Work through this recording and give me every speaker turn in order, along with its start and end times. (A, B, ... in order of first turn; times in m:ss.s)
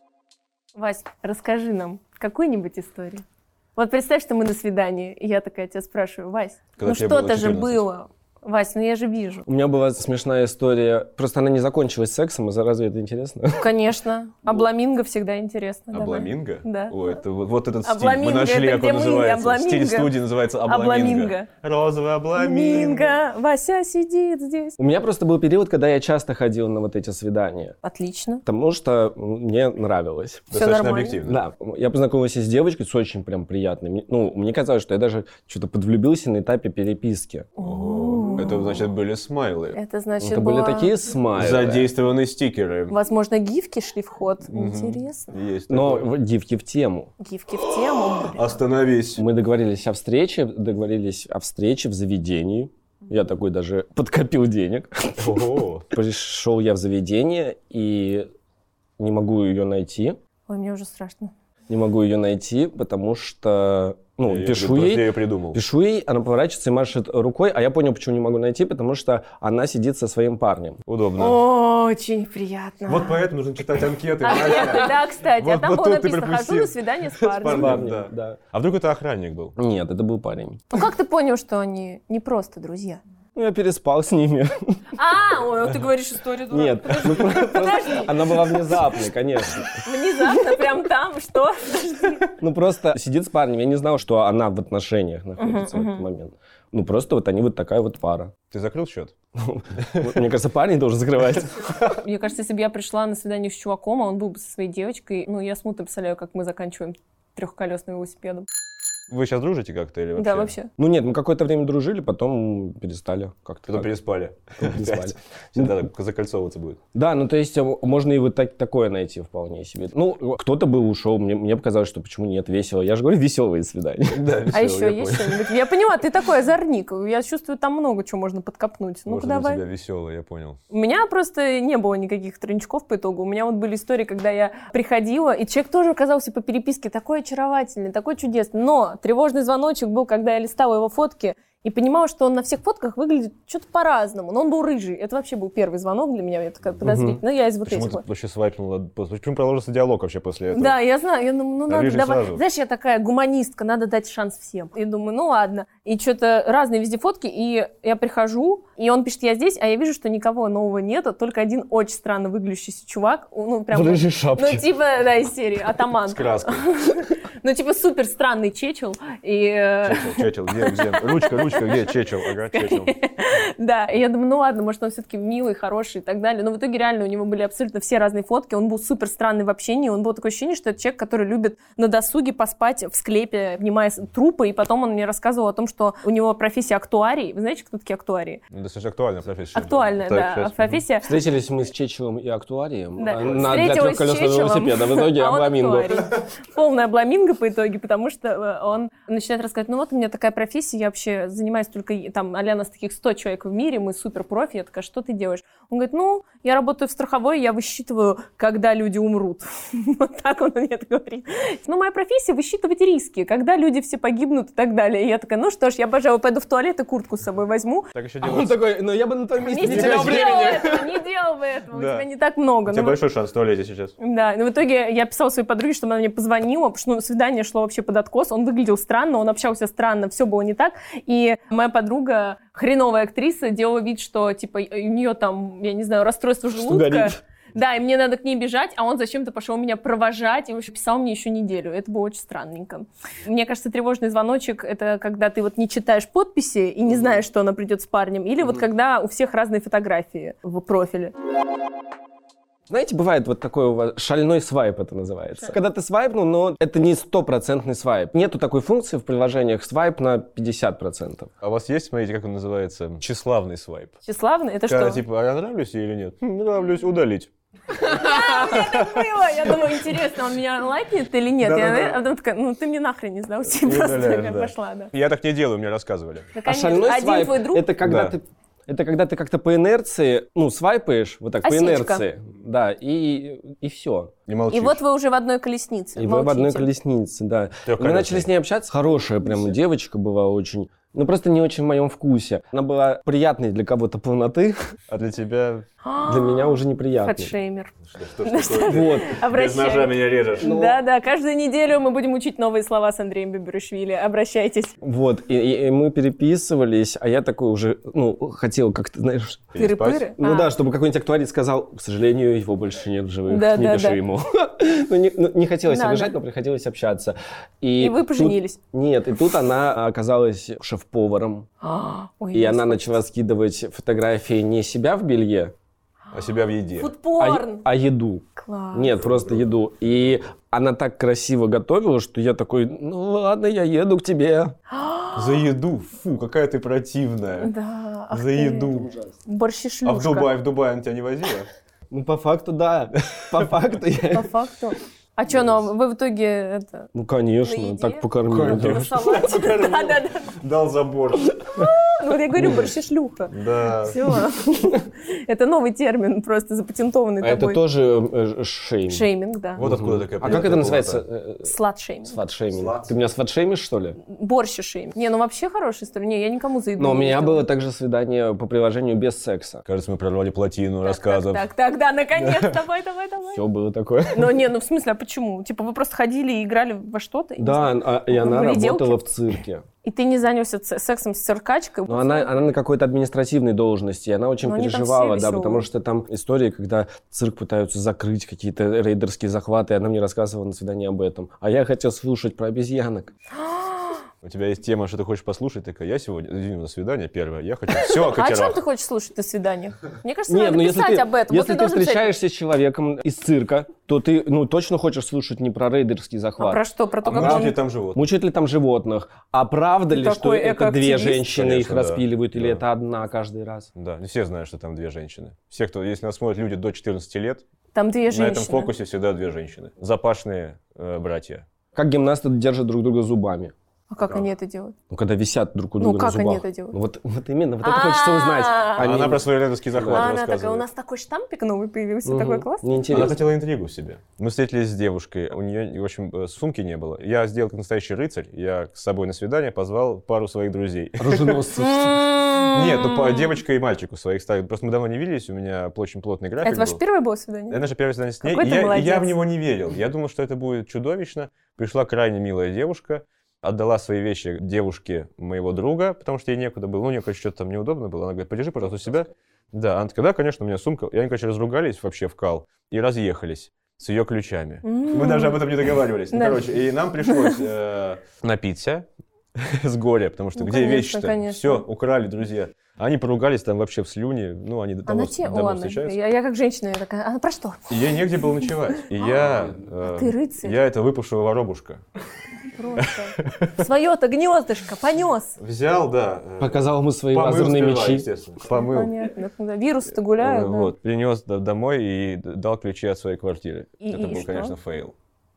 0:00.8-0:03.2 A
0:03.8-0:09.4 A
0:06.8-0:07.8 B
0:09.5-0:13.7 C
0:13.5-0:17.2 A
0:15.9-0:23.2 B
0:17.8-0:20.1 A
0:20.6-0:21.5 A
0:22.4-0:24.8 A
0:24.8-0:27.8 C
0:27.8-0:28.4 A
0:28.5-0:30.5 C
0:30.5-0:31.4 B
0:30.5-0:31.2 A
0:31.2-0:37.5 C
0:37.6-0:38.7 A
0:37.6-0:39.8 B
0:38.5-0:38.8 C
0:39.7-0:41.0 A
0:40.2-0:41.9 C
0:41.4-0:43.0 B
0:42.9-0:45.3 A
0:44.5-0:46.1 B
0:45.7-0:47.1 C
0:47.2-0:48.6 A
0:48.2-0:49.2 B
0:49.2-0:58.3 C
0:55.2-0:55.9 B
0:59.0-1:00.2 C
1:00.5-1:01.3 A
1:01.7-1:10.8 C
1:04.2-1:05.6 B
1:10.9-1:11.4 B
1:11.2-1:13.2 A
1:12.9-1:19.6 B
1:14.2-1:17.8 A
1:17.4-1:18.4 C
1:19.6-1:20.6 C
1:20.7-1:23.0 A
1:23.4-1:24.8 C
1:25.0-1:28.8 A
1:26.5-1:29.9 C
1:29.8-1:32.3 A
1:32.4-1:38.3 C
1:35.4-1:36.0 A
1:38.5-1:39.1 B
1:39.4-1:41.8 C
1:39.8-1:40.2 B
1:42.0-1:48.5 A
1:49.1-1:50.6 B
1:50.2-1:50.7 A
1:50.8-1:53.9 C
1:53.7-1:56.8 B
1:54.6-1:55.8 C
1:56.9-2:04.4 C
2:04.1-2:05.5 B
2:04.5-2:09.6 A
2:09.1-2:10.6 B
2:10.7-2:28.0 A
2:26.8-2:27.2 C
2:27.6-2:30.8 B
2:30.5-2:51.9 A
2:31.7-2:32.4 B
2:43.8-2:44.6 C
2:46.1-2:46.7 B
2:49.8-2:52.9 B
2:52.5-3:08.4 A
3:08.5-3:10.8 B
3:09.6-3:11.1 A
3:11.0-3:16.1 C
3:13.0-3:37.9 A
3:38.0-3:38.6 B
3:38.2-3:40.9 C
3:39.4-3:43.0 A
3:39.6-3:40.6 B
3:41.7-3:42.1 B
3:42.7-3:44.0 B
3:44.0-4:11.1 A
3:56.5-3:57.2 C
4:12.7-4:21.3 C
4:21.4-4:24.0 B
4:24.0-4:25.0 A
4:24.7-4:27.3 B
4:27.8-4:34.9 A
4:28.1-4:29.0 B
4:31.4-4:32.0 B
4:33.5-4:36.3 B
4:36.3-4:37.7 A
4:36.4-4:44.1 C
4:37.8-4:38.2 B
4:41.4-4:42.0 A
4:44.3-4:44.8 B
4:44.5-4:46.7 A
4:46.0-4:54.7 C
4:47.7-4:48.3 B
4:54.9-4:55.7 B
4:55.8-5:04.8 A
4:56.0-4:57.3 C
4:57.9-5:00.5 B
4:58.7-4:59.1 C
5:00.4-5:00.8 C
5:04.8-5:09.5 C
5:09.5-5:10.1 B
5:09.6-5:10.5 A
5:10.2-5:21.5 C
5:13.3-5:14.0 A
5:15.7-5:16.2 A
5:17.8-5:18.6 A
5:21.6-5:23.0 A
5:22.3-5:25.5 C
5:26.1-5:26.9 B
5:26.8-5:27.7 A
5:27.2-5:34.5 C
5:28.4-5:29.0 A
5:34.7-5:35.5 A
5:35.2-5:37.5 B
5:37.4-5:40.3 A
5:38.1-5:38.9 B
5:39.8-5:41.5 B
5:41.9-5:44.3 C
5:44.1-5:46.9 A
5:46.9-5:48.9 C
5:47.4-5:50.4 A
5:48.2-5:51.6 B
5:51.4-5:57.6 A
5:52.4-5:52.6 C
5:53.3-5:54.1 B
5:57.2-5:59.1 C
5:58.9-5:59.6 A
5:59.6-6:01.0 B
5:59.6-6:01.5 C
6:01.4-6:02.2 A
6:02.0-6:04.0 C
6:02.5-6:02.9 B
6:04.0-6:07.4 A
6:06.8-6:09.6 C
6:09.7-6:11.5 B
6:10.8-6:13.4 A
6:12.2-6:12.6 B
6:13.3-6:14.4 C
6:14.1-6:19.0 A
6:17.4-6:19.6 C
6:19.8-6:22.3 A
6:21.9-6:33.1 C
6:24.4-6:25.6 A
6:33.4-6:34.0 A
6:34.2-6:38.6 B
6:37.7-6:42.1 A
6:40.3-6:53.7 C
6:46.4-6:47.6 A
6:47.0-6:48.0 B
6:49.9-6:51.2 A
6:51.3-6:52.6 B
6:53.8-6:57.4 B
6:57.8-6:58.7 A
6:58.1-7:01.5 B
7:01.8-7:03.5 C
7:03.9-7:04.8 A
7:04.9-7:10.1 C
7:05.8-7:06.8 A
7:07.6-7:08.9 A
7:08.8-7:10.6 B
7:09.9-7:12.7 A
7:12.0-7:13.2 C
7:12.9-7:21.5 B
7:21.0-7:22.0 C
7:21.6-7:23.3 A
7:22.3-7:26.8 B
7:26.4-7:27.6 A
7:27.5-7:56.0 B
7:28.2-7:29.2 A
7:44.6-7:45.4 A
7:46.1-7:46.4 A
7:47.0-7:47.4 A
7:50.4-7:51.6 A
7:54.9-7:57.8 A
7:57.7-8:01.8 B
7:59.8-8:00.6 A
8:02.5-8:05.4 A
8:02.8-8:03.6 B
8:05.4-8:08.9 B
8:06.4-8:08.1 C
8:08.5-8:10.7 A
8:10.2-8:15.0 B
8:13.8-8:14.5 A